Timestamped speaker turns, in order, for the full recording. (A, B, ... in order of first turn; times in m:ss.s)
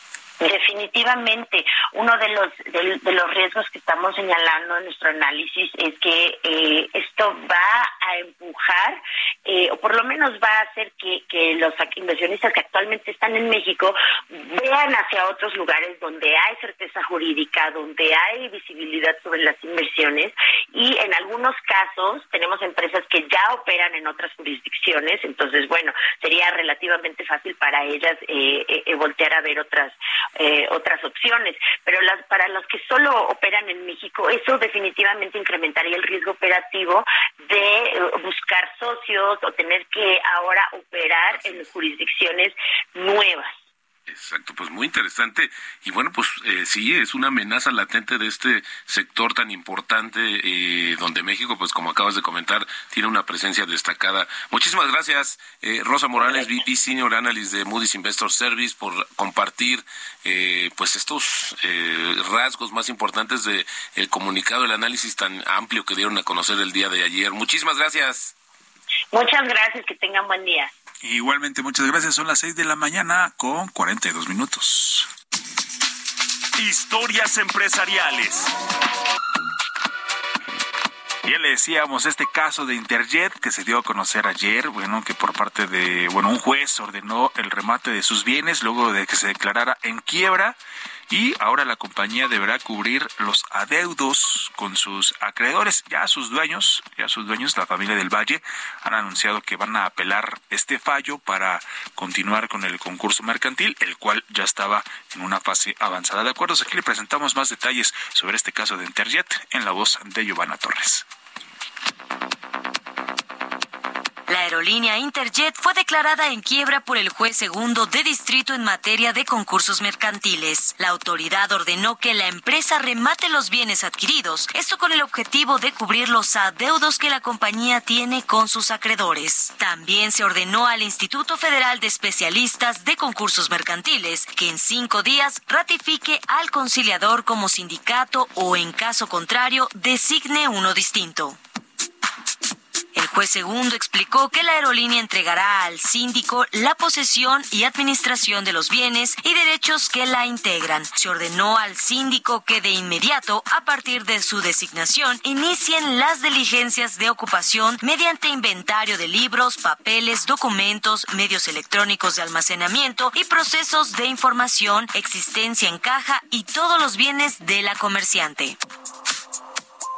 0:00.4-0:43.5 A
0:44.1-1:08.3 B
1:09.1-1:10.7 A
1:11.0-1:15.1 C
1:16.6-1:18.5 D
1:21.2-1:51.1 C
1:54.3-2:21.4 E
2:22.9-2:48.6 E